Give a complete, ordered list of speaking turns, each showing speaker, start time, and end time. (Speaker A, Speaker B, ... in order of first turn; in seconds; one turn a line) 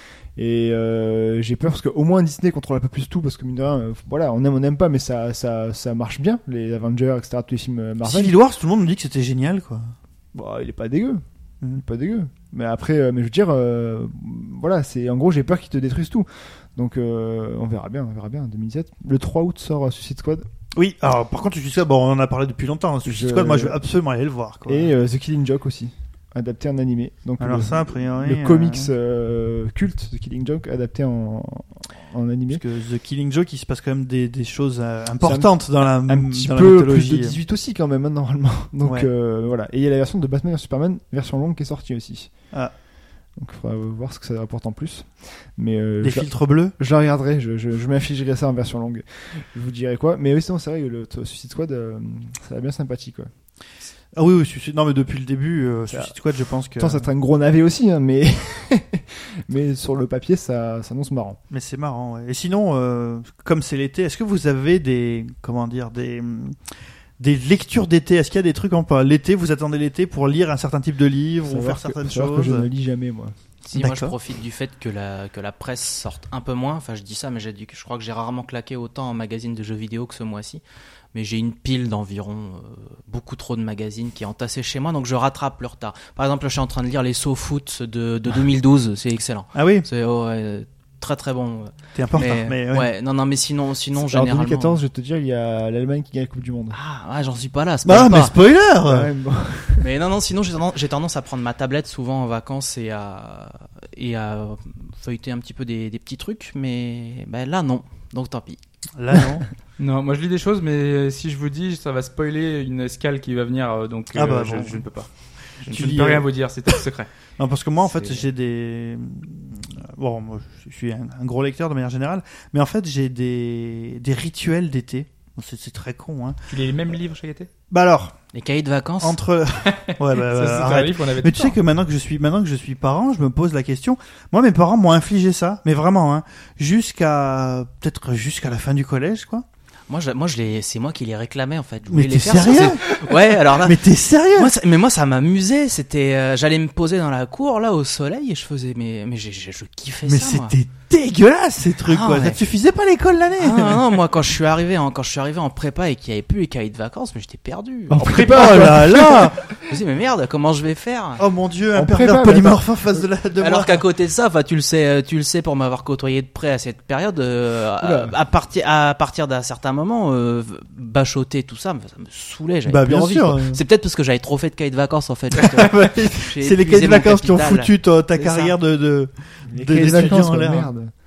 Speaker A: 0.3-8.3
Speaker B: 8.0-9.9
Speaker A: 10.3-11.2
Speaker A: 11.8-20.4
Speaker B: 20.7-24.9
Speaker A: 23.0-23.8
Speaker A: 24.7-32.6
Speaker B: 27.4-28.9
Speaker B: 32.5-37.4
Speaker A: 35.2-42.5
Speaker A: 43.4-53.3
Speaker B: 46.0-46.7
Speaker B: 54.1-57.0
Speaker A: 55.9-56.1
Speaker A: 56.8-61.4
Speaker B: 61.5-66.6
Speaker B: 67.2-72.7
Speaker A: 71.4-73.3
Speaker C: 73.6-80.6
Speaker B: 73.8-74.1
Speaker C: 81.1-94.8
Speaker B: 89.5-89.9
Speaker B: 91.9-92.9
Speaker A: 94.0-96.8
Speaker C: 96.7-98.3
Speaker B: 97.8-99.1
Speaker A: 98.8-99.9
Speaker C: 99.8-108.6
Speaker B: 109.0-109.5
Speaker D: 109.8-117.1
Speaker B: 114.1-114.8
Speaker B: 115.7-116.3
Speaker B: 117.4-126.4
Speaker D: 118.0-118.2
Speaker D: 126.5-127.5
Speaker B: 127.7-128.2
Speaker C: 128.3-129.2
Speaker B: 129.0-139.4
Speaker D: 129.6-131.6
Speaker C: 139.9-143.8
Speaker B: 141.9-144.5
Speaker C: 144.3-150.5
Speaker B: 150.1-153.8
Speaker C: 151.8-152.4
Speaker C: 153.4-161.2
Speaker A: 157.9-159.3
Speaker B: 157.9-159.5
Speaker B: 161.2-163.8
Speaker A: 161.7-163.0
Speaker C: 163.4-178.6
Speaker A: 167.8-168.1
Speaker B: 172.7-173.6
Speaker B: 175.4-180.7
Speaker A: 179.5-180.9